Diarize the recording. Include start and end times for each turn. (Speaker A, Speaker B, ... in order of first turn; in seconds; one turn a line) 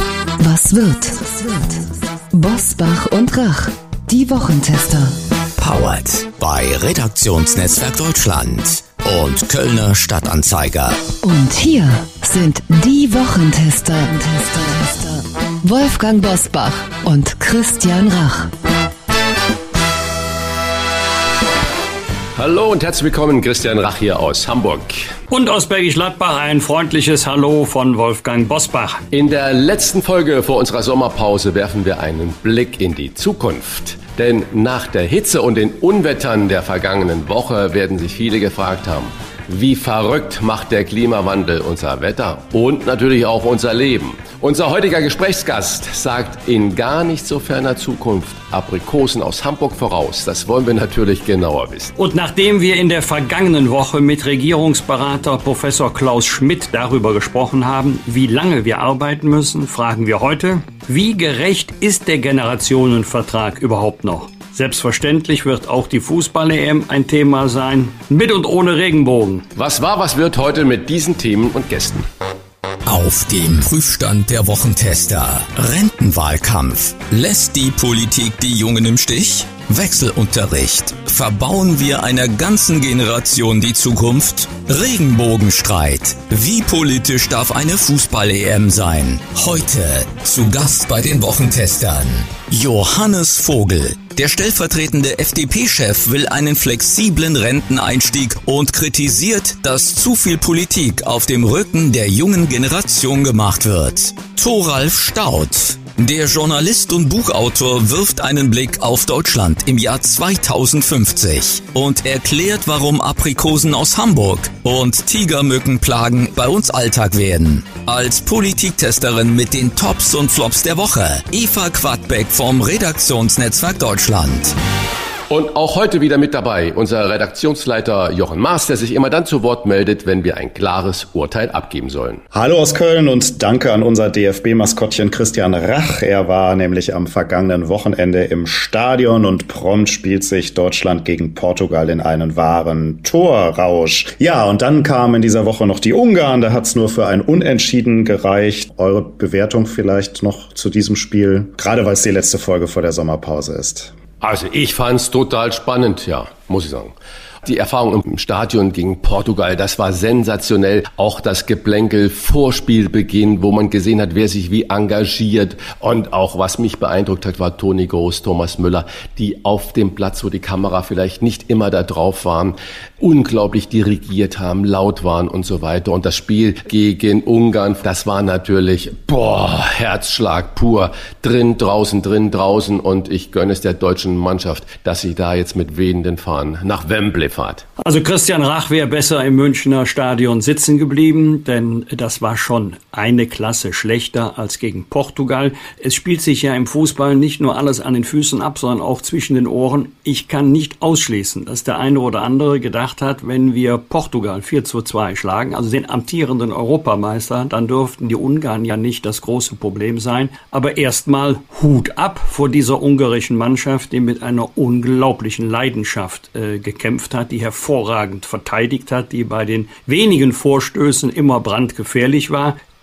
Speaker A: 0.4-5.2
Speaker B: 5.6-11.1
Speaker A: 11.2-18.5
Speaker C: 22.4-25.1
Speaker D: 25.3-29.0
Speaker C: 29.1-51.9
Speaker D: 52.0-69.5
Speaker C: 69.6-72.1
Speaker B: 72.9-124.5
Speaker C: 125.3-132.2
Speaker E: 132.3-153.9
Speaker C: 154.2-156.9
Speaker C: 157.4-187.7
Speaker D: 187.8-222.6